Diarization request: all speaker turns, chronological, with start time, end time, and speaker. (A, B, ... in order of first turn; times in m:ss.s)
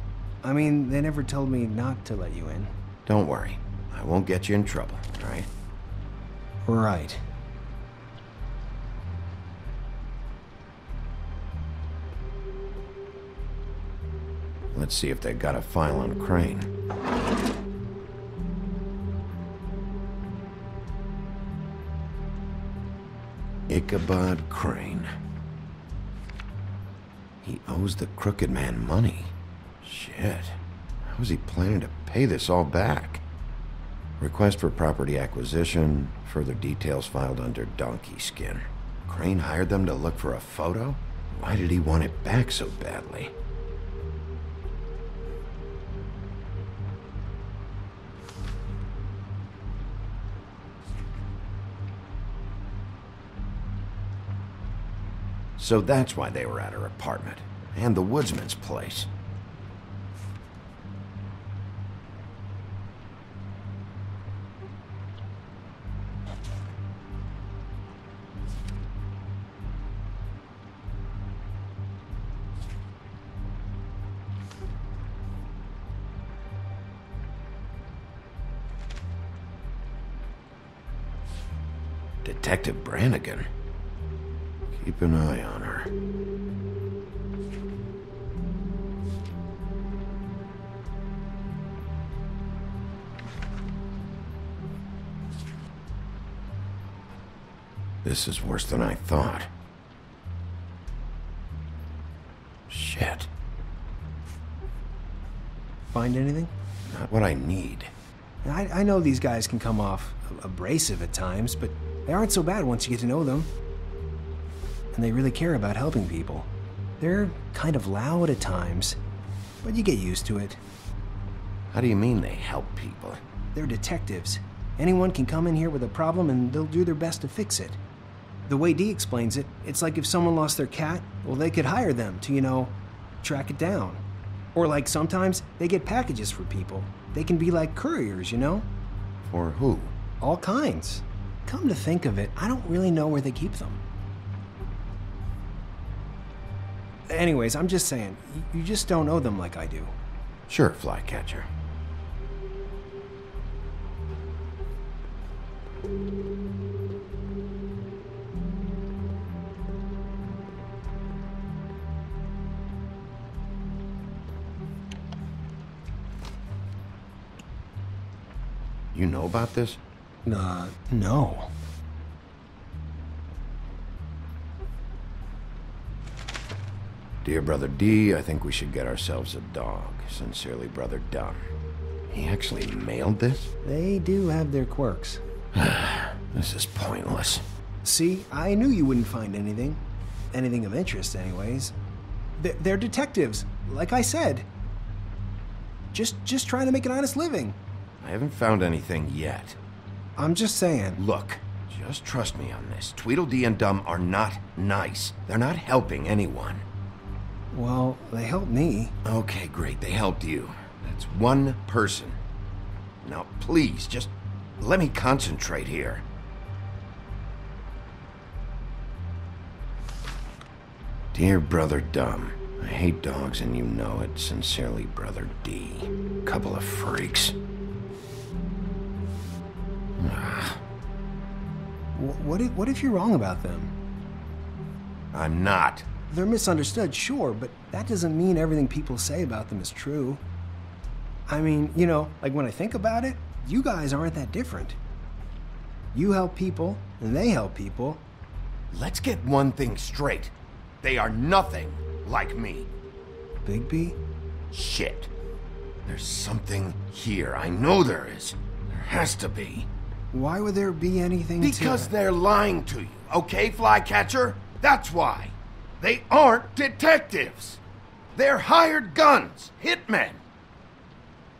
0:00.4-0:02.7 A
0:03.0-0:05.5 B
0:06.6-0:07.2 A
0:14.7-0:16.7 B
0:23.7-0:25.1 B
0:27.4-0:33.2 B
0:34.2-0:43.3 B
0:55.6-0:59.1 B
1:22.2-1:23.5 B
1:24.7-1:25.9 B
1:38.0-1:39.5 B
1:42.7-1:43.3 B
1:45.9-1:46.5 A
1:46.8-1:47.9 B
1:48.4-1:53.5 A
1:54.9-1:56.5 A
1:57.0-1:59.0 A
1:59.6-2:00.6 A
2:01.7-2:03.2 B
2:03.5-2:07.8 A
2:08.4-2:14.0 A
2:14.5-2:18.7 A
2:19.2-2:19.9 B
2:20.2-2:23.8 A
2:27.1-2:29.9 A
2:30.5-2:31.5 B
2:48.9-2:49.8 B
2:50.2-2:51.5 A
2:57.2-3:01.4 B
3:02.1-3:03.5 B
3:03.6-3:05.2 A
3:05.5-3:07.4 B
3:07.8-3:09.8 A
3:10.3-3:11.7 A
3:12.4-3:14.4 A
3:15.9-3:17.6 A
3:18.0-3:19.6 B
3:20.2-3:21.0 A
3:21.0-3:26.6 B
3:27.5-3:28.9 A
3:29.0-3:32.2 B
3:33.0-3:36.0 B
3:41.1-3:47.4 B
3:50.0-3:50.6 B
3:51.9-3:53.7 A
3:55.1-3:55.9 B
3:56.1-4:00.2 A
4:01.3-4:04.8 A
4:05.9-4:08.0 A
4:08.7-4:12.7 B
4:13.4-4:14.0 A
4:14.5-4:15.1 B
4:15.8-4:19.7 B
4:20.1-4:21.9 A
4:21.4-4:27.6 B
4:28.1-4:30.2 B